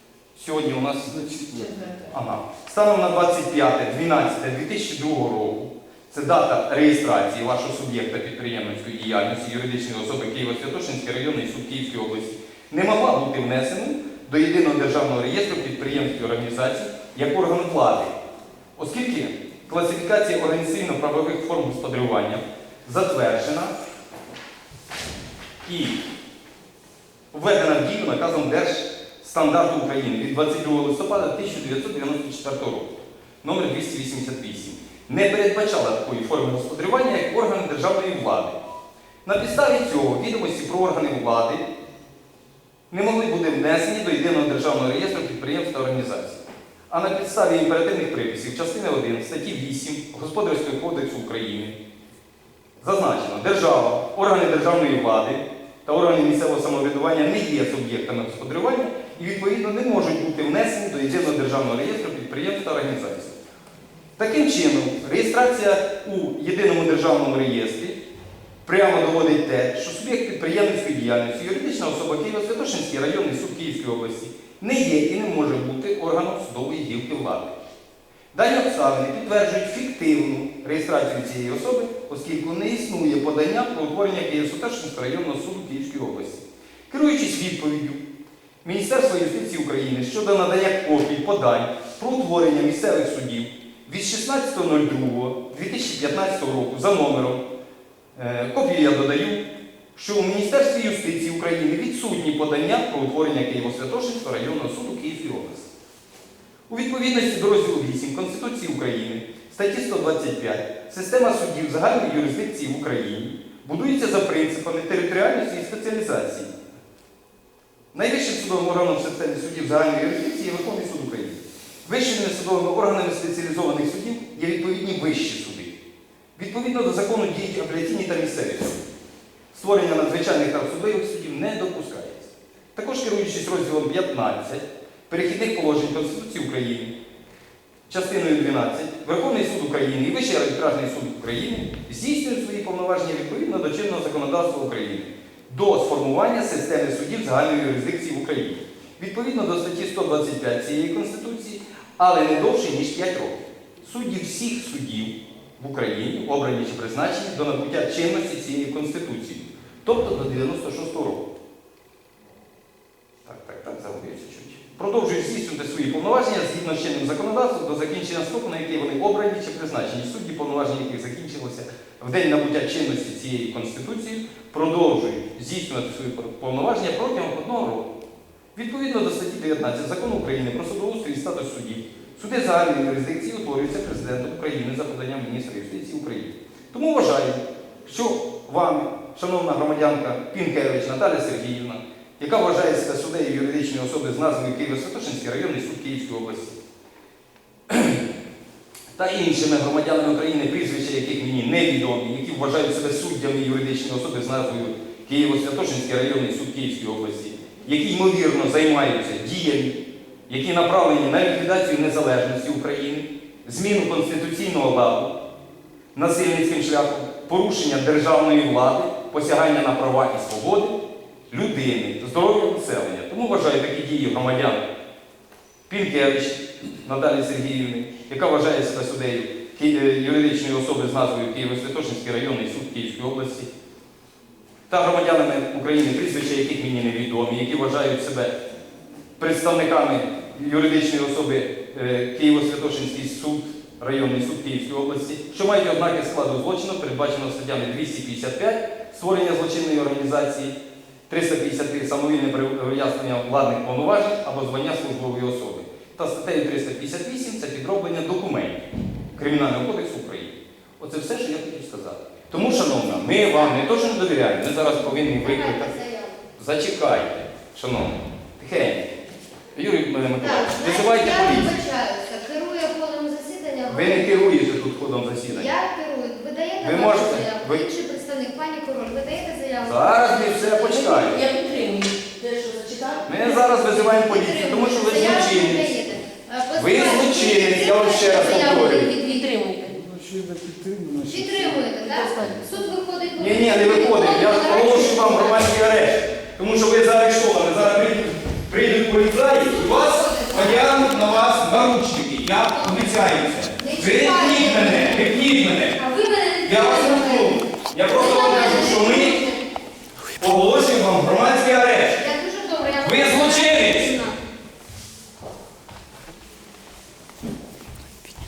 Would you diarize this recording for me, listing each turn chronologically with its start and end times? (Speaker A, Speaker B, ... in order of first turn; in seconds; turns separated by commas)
Speaker A: 0.3-1.4, Speaker B: 1.3-1.7, Speaker C: 1.5-2.0, Speaker A: 2.1-18.1, Speaker A: 18.8-23.7, Speaker A: 25.6-26.0, Speaker A: 27.3-38.6, Speaker A: 39.2-41.6, Speaker A: 42.9-51.8, Speaker A: 52.8-63.4, Speaker A: 64.2-68.0, Speaker A: 68.7-77.6, Speaker A: 78.3-88.0, Speaker A: 88.6-97.4, Speaker A: 98.2-99.4, Speaker A: 100.0-105.7, Speaker A: 106.7-116.5, Speaker A: 117.9-125.8, Speaker A: 126.4-128.8, Speaker A: 129.5-136.9, Speaker A: 137.9-161.3, Speaker A: 163.2-177.9, Speaker A: 178.6-196.6, Speaker A: 197.7-198.0, Speaker A: 198.9-215.1, Speaker A: 215.9-220.8, Speaker A: 221.3-224.6, Speaker A: 225.7-233.5, Speaker A: 234.7-238.4, Speaker A: 239.2-250.6, Speaker A: 251.1-258.6, Speaker A: 259.2-265.7, Speaker D: 262.3-266.2, Speaker A: 266.4-268.9, Speaker A: 269.5-271.5, Speaker D: 270.2-274.5, Speaker A: 273.7-275.5, Speaker D: 275.3-281.2, Speaker A: 276.6-277.6, Speaker A: 279.6-281.2, Speaker C: 280.7-283.4, Speaker A: 283.1-285.8, Speaker D: 283.2-289.3, Speaker C: 284.9-285.2, Speaker A: 286.5-288.9, Speaker C: 288.2-289.8, Speaker B: 289.6-291.6, Speaker D: 291.1-295.6, Speaker C: 291.8-292.7, Speaker A: 293.2-305.8, Speaker D: 299.4-301.4, Speaker D: 302.5-302.9, Speaker D: 303.6-309.4, Speaker A: 306.4-309.2, Speaker A: 310.2-312.0, Speaker D: 311.9-314.2, Speaker A: 312.8-313.9